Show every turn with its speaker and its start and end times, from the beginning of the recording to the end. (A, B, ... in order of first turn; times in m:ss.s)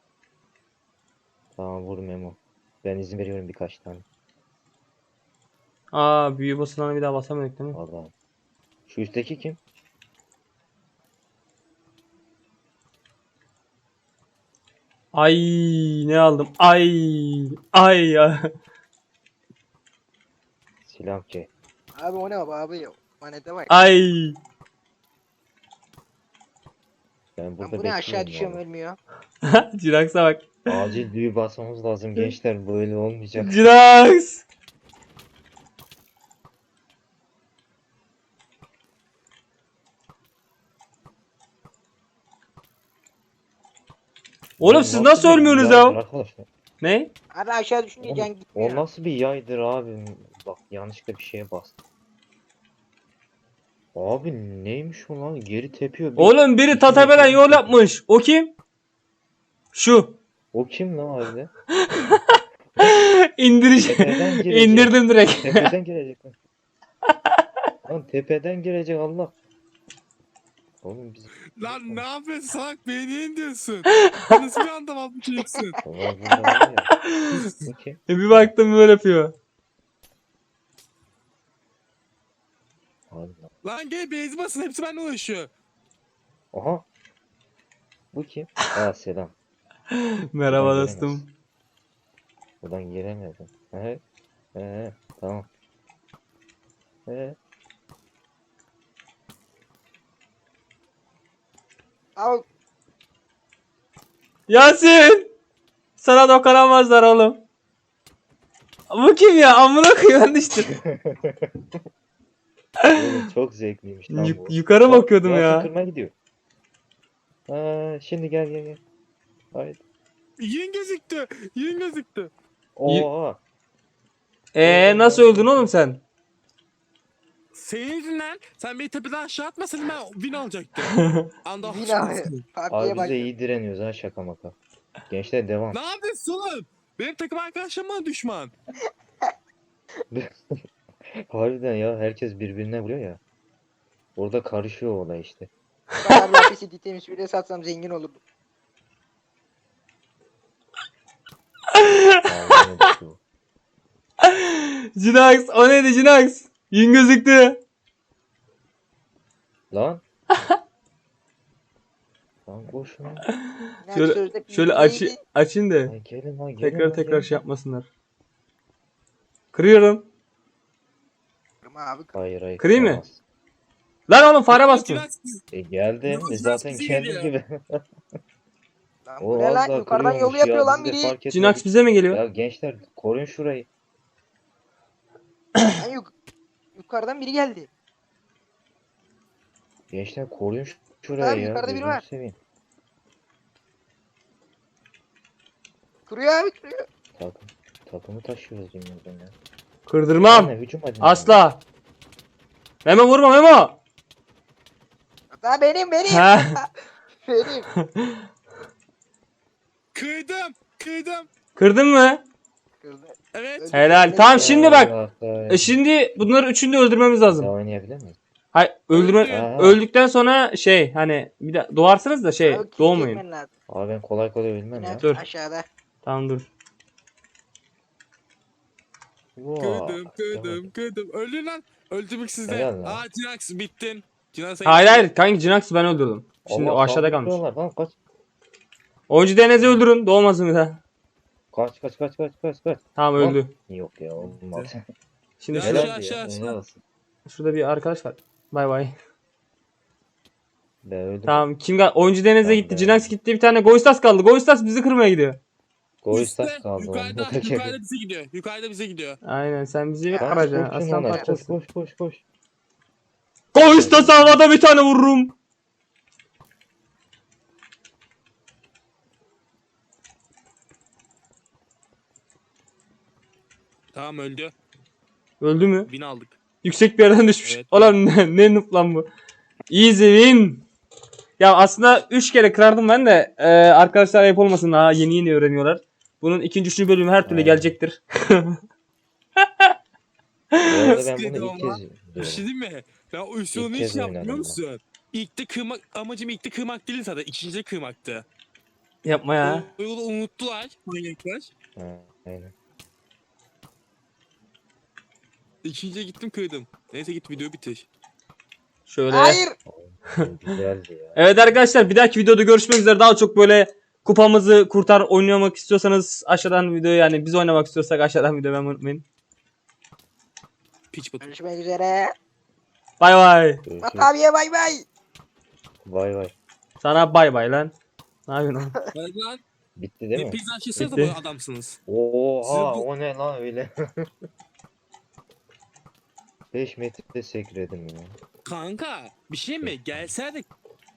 0:01.6-0:04.0 A
0:05.9-0:07.8 B
0:07.7-0:08.1 A
0:08.9-0:09.6 A
0:15.1-0:18.5 B
0:20.8-0:21.5 A
0:22.0-0:23.7 C
0:23.7-0:24.4 B
0:27.4-0:28.6 A
0:27.6-0:29.0 C
0:29.4-0:30.6 B
0:30.7-0:33.7 A
0:33.4-0:34.4 B
0:44.6-0:46.5 A
0:44.6-0:46.0 B
0:46.8-0:47.1 B
0:47.3-0:48.8 C
0:48.0-0:51.8 A
0:53.9-0:57.9 A
0:56.2-0:58.5 B
0:59.7-1:00.2 B
1:00.5-1:01.5 A
1:02.8-1:05.7 B
1:03.8-1:06.4 A
1:07.8-1:09.3 A
1:10.8-1:12.0 A
1:11.6-1:15.8 D
1:15.8-1:17.0 A
1:17.6-1:18.5 A
1:18.1-1:19.3 B
1:23.1-1:23.5 A
1:23.6-1:25.5 D
1:26.5-1:26.8 A
1:28.1-1:29.3 A
1:29.9-1:31.3 B
1:30.5-1:31.2 A
1:32.6-1:34.0 A
1:34.5-1:35.5 A
1:37.1-1:37.4 A
1:42.2-1:42.4 C
1:44.5-1:45.3 B
1:46.0-1:47.4 B
1:48.9-1:50.7 B
1:50.7-1:51.6 A
1:52.9-1:56.1 A
1:54.1-1:55.7 B
1:57.5-1:58.8 A
1:59.5-1:59.8 A
2:00.4-2:02.3 D
2:02.8-2:03.4 A
2:04.5-2:06.0 B
2:04.6-2:05.7 A
2:07.5-2:12.4 D
2:10.9-2:11.2 B
2:11.6-2:13.3 C
2:12.7-2:14.5 A
2:15.1-2:15.8 A
2:15.7-2:18.5 D
2:20.1-2:20.6 A
2:21.3-2:23.2 A
2:24.2-2:25.5 A
2:26.0-2:28.2 C
2:31.8-2:32.2 B
2:32.2-2:33.2 A
2:34.2-2:37.6 B
2:39.7-2:40.0 A
2:42.4-2:43.2 A
2:43.8-2:45.2 C
2:43.9-2:45.9 B
2:45.9-2:47.4 A
2:46.6-2:47.9 B
2:49.5-2:50.0 B
2:51.6-2:52.1 C
2:52.1-2:53.2 A
2:52.6-2:53.0 B
2:54.1-2:55.0 B
2:54.5-2:55.4 D
2:55.5-2:57.8 A
2:56.1-2:57.3 D
2:59.0-3:01.2 C
2:59.2-3:03.7 A
3:01.3-3:02.2 B
3:05.7-3:06.1 C
3:06.8-3:07.7 C
3:09.9-3:12.4 A
3:11.2-3:12.0 C
3:16.1-3:16.8 C
3:17.2-3:19.3 A
3:19.9-3:21.6 B
3:20.0-3:21.4 A
3:22.8-3:23.8 B
3:25.3-3:26.7 C
3:26.1-3:26.5 B
3:27.2-3:27.7 C
3:27.8-3:28.2 B
3:29.9-3:31.3 D
3:31.6-3:32.2 B
3:32.8-3:34.8 C
3:33.3-3:33.8 D
3:33.7-3:34.9 B
3:34.3-3:35.8 A
3:35.5-3:37.5 B
3:37.2-3:38.2 A
3:38.5-3:43.2 B
3:38.9-3:39.4 D
3:39.2-3:39.8 A
3:42.4-3:43.5 C
3:43.7-3:45.0 A
3:44.7-3:45.6 C
3:46.0-3:46.5 B
3:49.4-3:50.7 A
3:49.6-3:55.1 D
3:52.4-3:53.0 A
3:54.6-3:57.4 B
3:56.4-3:57.9 A
3:59.1-4:00.8 B
3:59.6-3:59.8 A
4:01.5-4:04.8 A
4:03.0-4:03.5 B
4:04.2-4:04.7 D
4:05.4-4:05.9 B
4:05.5-4:06.5 D
4:05.6-4:06.8 A
4:07.2-4:08.9 B
4:10.8-4:11.5 A
4:11.3-4:15.4 B
4:12.4-4:13.1 A
4:16.0-4:17.7 A
4:16.1-4:19.2 D
4:19.2-4:21.6 B
4:20.1-4:21.3 C
4:20.2-4:22.2 A
4:23.5-4:25.3 B
4:23.5-4:24.5 A
4:33.9-4:34.5 D
4:35.4-4:35.9 B
4:35.9-4:36.4 D
4:36.6-4:39.0 B
4:37.4-4:37.9 D
4:39.7-4:40.6 B
4:41.4-4:48.6 B
4:47.2-4:47.8 A
4:49.4-4:49.7 B
4:50.6-4:52.5 A
4:50.9-4:58.2 D
4:53.5-4:54.6 A
4:59.0-4:59.6 B
4:59.4-5:01.5 D
5:01.8-5:02.5 A
5:05.6-5:07.8 D
5:08.9-5:09.4 B
5:09.1-5:09.6 C
5:09.6-5:11.6 A
5:11.2-5:19.0 B
5:20.9-5:21.3 D
5:21.2-5:22.1 C
5:23.0-5:23.6 B
5:23.6-5:24.1 A
5:23.8-5:24.8 C
5:25.8-5:26.3 A
5:26.8-5:27.7 B
5:28.3-5:28.8 B
5:28.9-5:29.4 D
5:29.8-5:31.1 A
5:30.1-5:31.8 D
5:30.8-5:31.1 B
5:31.8-5:34.1 A
5:32.4-5:32.8 D
5:36.5-5:38.2 A
5:38.4-5:40.5 D
5:39.6-5:40.1 A